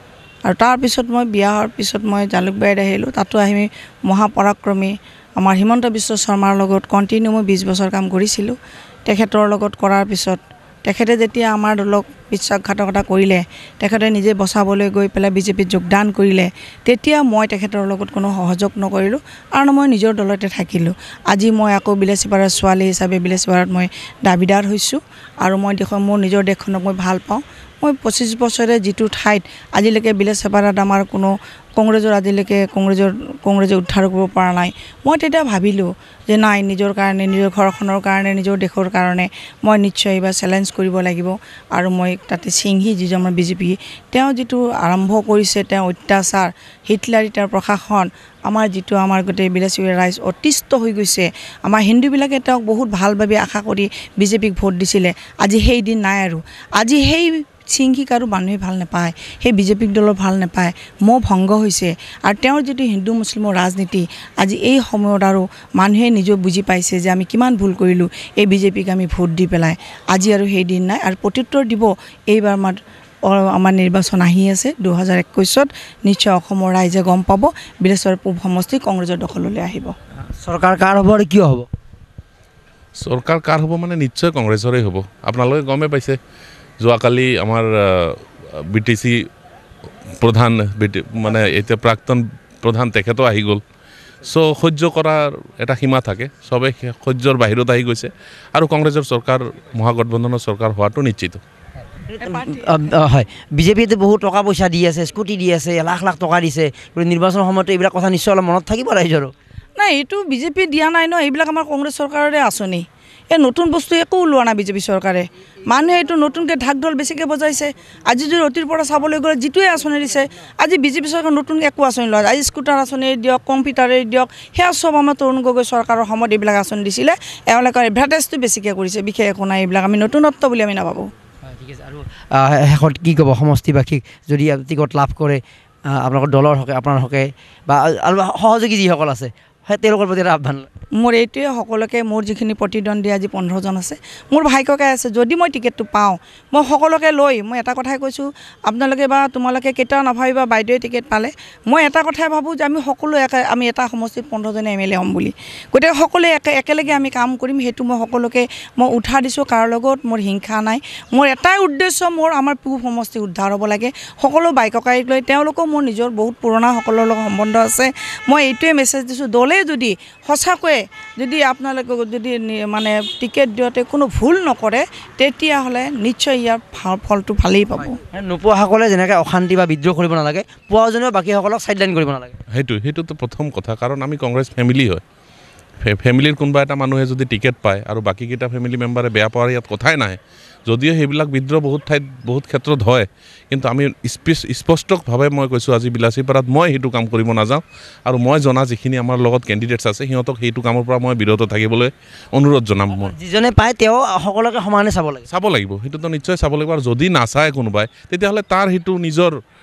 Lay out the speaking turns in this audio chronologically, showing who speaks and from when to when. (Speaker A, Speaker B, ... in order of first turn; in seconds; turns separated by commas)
Speaker A: 0.4-79.9, Speaker B: 80.4-81.7, Speaker C: 83.0-86.2, Speaker C: 86.8-89.2, Speaker C: 90.2-93.6, Speaker C: 94.2-101.4, Speaker B: 102.1-109.3, Speaker A: 102.2-102.7, Speaker A: 109.8-131.1, Speaker B: 131.5-140.7, Speaker A: 141.0-178.0, Speaker B: 177.9-182.4, Speaker C: 182.5-185.0, Speaker C: 185.8-203.1, Speaker B: 202.9-205.2, Speaker C: 205.3-209.3